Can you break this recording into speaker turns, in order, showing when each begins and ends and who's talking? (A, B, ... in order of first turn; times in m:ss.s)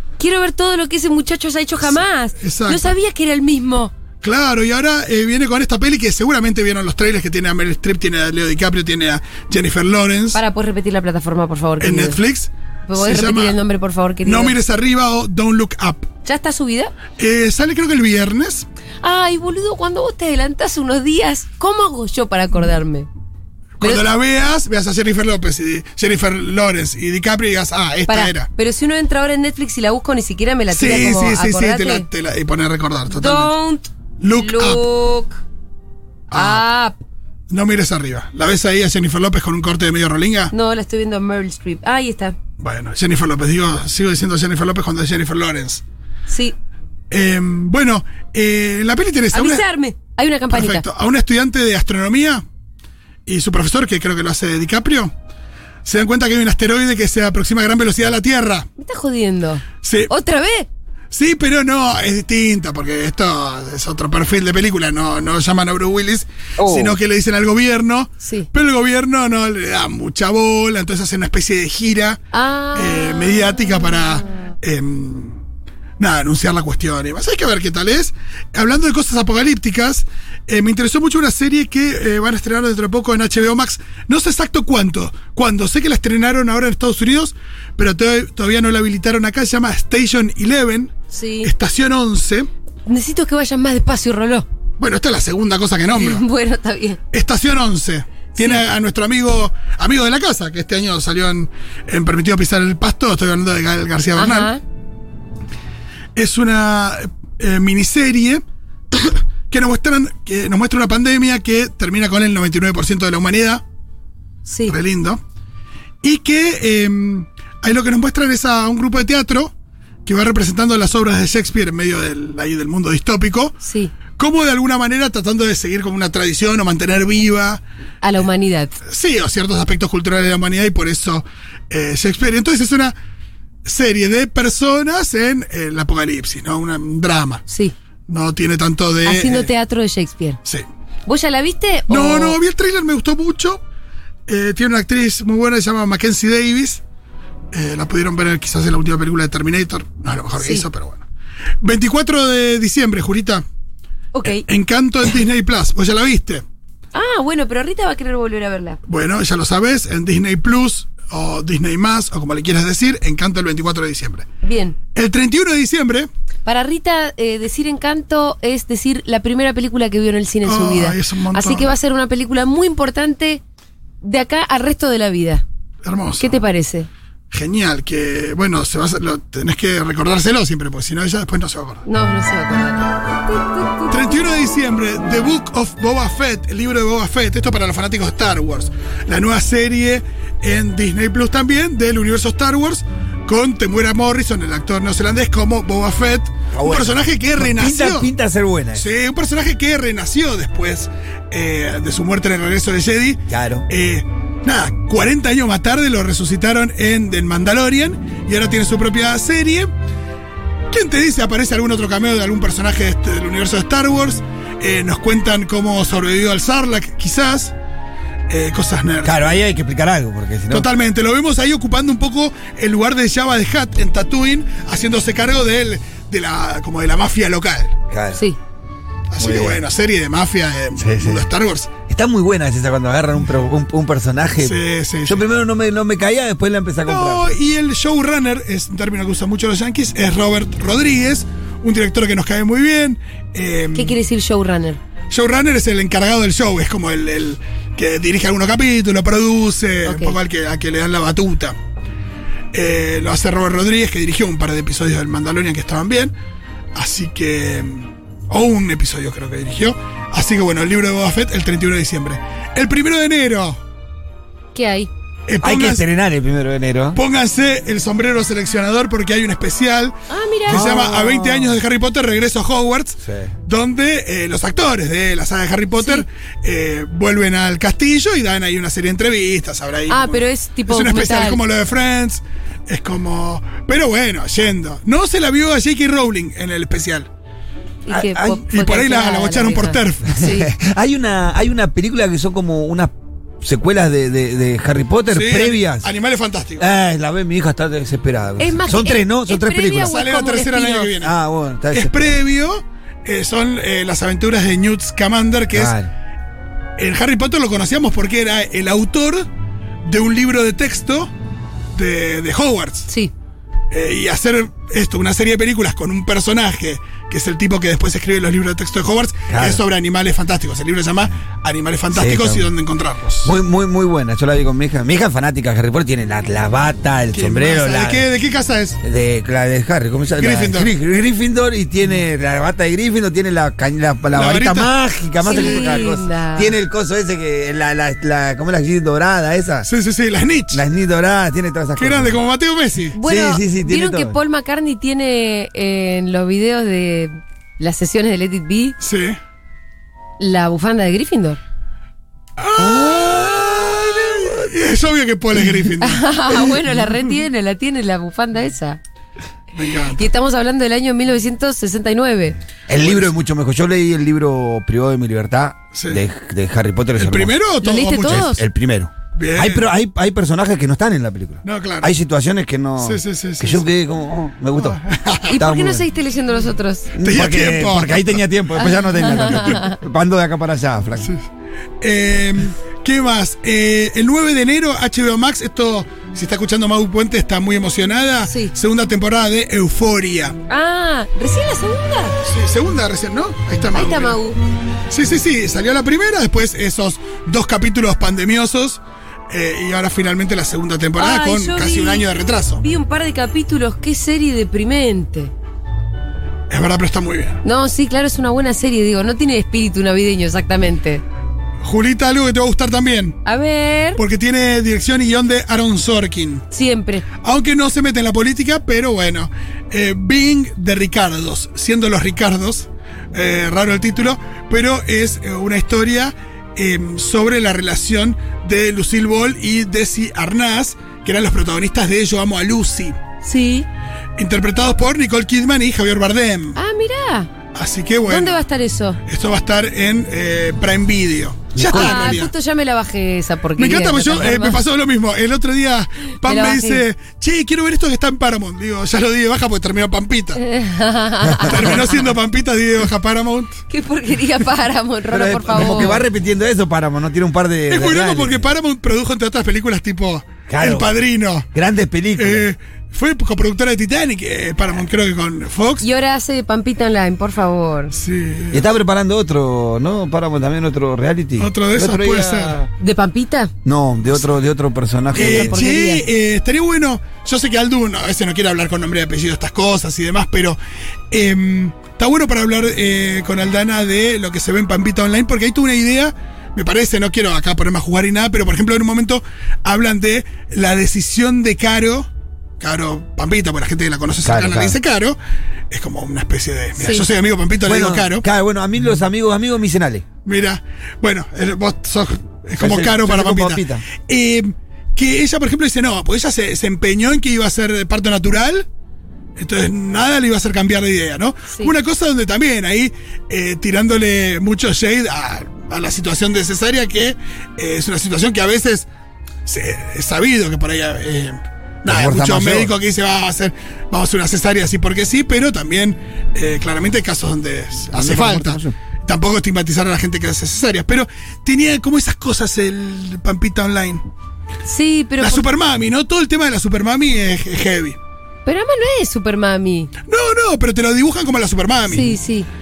0:00.2-0:03.9 A
0:02.4-0:02.9 B
0:04.2-0:10.4 B
0:10.3-0:12.2 A
0:11.8-0:13.6 B
0:12.9-0:14.6 A
0:14.2-0:16.1 B
0:16.2-0:16.9 A
0:17.2-0:18.7 B
0:19.0-0:23.1 A
0:23.8-0:28.5 B
0:28.1-0:32.1 A
0:30.7-0:33.5 B
0:33.1-0:35.4 A
0:34.2-0:34.8 B
0:36.3-0:36.6 B
0:36.3-0:37.0 A
0:37.5-0:40.5 B
0:40.5-0:42.4 A
0:42.6-0:45.8 B
0:46.3-0:46.6 A
0:47.1-0:49.6 B
0:49.3-0:50.8 A
0:50.5-0:52.4 B
0:53.3-0:55.1 B
0:55.8-0:58.7 B
0:58.8-1:00.7 A
0:59.8-1:00.1 B
1:01.1-1:12.2 B
1:08.2-1:08.5 A
1:12.3-1:13.4 A
1:12.8-1:15.4 B
1:16.0-1:32.5 B
1:31.1-1:31.5 A
1:32.9-1:34.5 A
1:34.8-1:36.2 B
1:35.9-1:37.0 A
1:37.1-1:44.5 B
1:38.4-1:38.6 A
1:44.2-1:44.6 A
1:46.2-1:53.6 B
1:54.5-1:54.8 A
1:54.7-1:55.2 B
1:56.0-1:59.5 B
2:00.1-2:03.6 B
2:03.6-2:03.9 A
2:04.2-2:07.6 B
2:08.0-2:08.8 A
2:08.8-2:13.0 B
2:13.6-2:17.4 B
2:17.5-2:17.7 A
2:18.1-2:19.5 B
2:19.0-2:20.4 A
2:21.1-2:22.4 A
2:21.9-2:23.6 B
2:24.3-2:26.8 B
2:27.5-2:31.0 B
2:30.4-2:30.7 A
2:31.6-2:33.4 B
2:34.1-2:34.4 A
2:34.2-2:36.4 B
2:36.9-2:38.8 A
2:38.9-2:44.3 B
2:44.4-2:44.8 A
2:45.0-2:46.1 B
2:46.4-2:53.4 A
2:50.4-2:51.7 B
2:54.0-2:55.4 A
2:55.8-2:56.4 B
2:56.2-2:56.9 A
2:57.3-3:01.8 B
3:01.9-3:04.0 A
3:03.9-3:18.1 B
3:16.5-3:18.8 C
3:18.8-3:29.7 B
3:23.3-3:23.7 C
3:30.7-3:37.6 B
3:38.3-3:39.3 B
3:39.0-3:40.7 C
3:40.5-3:47.8 B
3:47.9-3:48.2 C
3:49.1-3:51.7 B
3:49.2-3:49.6 C
3:50.8-3:51.3 C
3:51.9-3:57.4 C
3:54.4-3:55.2 B
3:56.8-4:04.0 B
4:03.7-4:04.8 A
4:05.1-4:11.6 B
4:09.9-4:10.2 A
4:12.5-4:16.1 B
4:16.8-4:23.6 B
4:24.6-4:24.9 A
4:25.3-4:25.8 B
4:25.4-4:27.0 C
4:27.0-4:47.1 B
4:30.1-4:31.1 A
4:30.5-4:31.4 C
4:33.0-4:33.3 C
4:35.8-4:36.1 A
4:39.9-4:41.4 A
4:47.9-4:50.5 A
4:47.9-4:48.4 C
4:48.5-4:50.2 B
4:50.1-4:55.9 C
4:55.1-4:56.7 B
4:56.6-4:59.9 C
4:58.4-5:00.9 A
4:59.9-5:01.2 B
5:01.0-5:02.2 C
5:01.7-5:05.7 B
5:05.5-5:05.9 C
5:06.8-5:09.3 B
5:09.8-5:11.1 B
5:11.8-5:12.9 B
5:13.7-5:23.3 B
5:19.3-5:19.6 C
5:21.9-5:22.5 C
5:23.2-5:28.0 C
5:27.1-5:28.8 B
5:28.8-5:39.7 C
5:30.2-5:30.7 B
5:34.1-5:34.7 B
5:35.2-5:36.5 A
5:35.3-5:35.8 B
5:39.7-5:40.6 B
5:40.5-5:42.2 C
5:41.8-5:43.0 B
5:43.0-5:48.8 A
5:43.0-5:44.2 C
5:48.8-5:49.2 B
5:50.2-5:51.4 A
5:52.4-5:57.0 B
5:52.6-5:54.4 C
5:55.8-5:58.8 A
5:59.5-6:00.1 B
6:00.0-6:02.4 A
6:02.7-6:07.3 C
6:02.8-6:03.1 B
6:05.7-6:06.0 B
6:07.0-6:08.3 B
6:07.6-6:08.4 A
6:08.1-6:14.8 C
6:09.2-6:09.7 B
6:11.4-6:11.9 B
6:12.8-6:13.7 B
6:14.6-6:15.4 B
6:15.3-6:16.9 A
6:15.4-6:15.9 C
6:17.0-6:21.1 C
6:17.0-6:18.2 B
6:18.6-6:19.8 A
6:21.8-6:30.4 B
6:30.5-6:32.2 A
6:32.2-6:34.2 B
6:33.7-6:34.4 A
6:34.9-6:42.6 B
6:41.0-6:45.3 A
6:46.5-6:47.4 B
6:47.4-6:51.0 A
6:51.6-6:53.2 B
6:53.2-6:54.0 A
6:54.0-6:56.4 B
6:56.5-6:57.1 A
6:57.2-7:13.0 B
7:13.2-7:13.7 A
7:14.2-7:16.6 B
7:16.6-7:17.3 A
7:17.5-7:18.4 B
7:18.0-7:19.0 A
7:19.0-7:22.3 B
7:21.6-7:22.2 C
7:21.7-7:24.6 A
7:23.6-7:30.4 B
7:26.2-7:26.8 A
7:30.4-7:32.0 A
7:31.3-7:31.6 C
7:31.4-7:33.6 B
7:33.7-7:36.0 A
7:35.1-7:38.5 C
7:35.6-7:35.9 B
7:37.7-7:41.5 B
7:40.5-7:40.9 C
7:41.5-7:42.5 C
7:42.2-7:45.8 B
7:45.8-7:48.0 A
7:47.9-7:48.7 B
7:48.5-7:52.7 C
7:51.4-7:52.6 B
7:52.8-7:53.5 A
7:53.6-7:55.6 C
7:55.1-7:56.1 A
7:55.2-8:00.6 B
8:01.1-8:12.1 B
8:12.6-8:15.2 B
8:14.2-8:14.8 C
8:15.7-8:18.2 B
8:16.8-8:17.1 A
8:17.6-8:20.0 C
8:20.2-8:28.7 B
8:22.6-8:23.9 C
8:29.4-8:38.9 B
8:39.5-8:54.0 B
8:41.9-8:42.7 C
8:47.9-8:48.7 C
8:54.6-8:55.4 A
8:55.2-8:58.0 B
8:58.5-8:59.9 A
9:00.1-9:02.2 B
9:01.9-9:02.5 A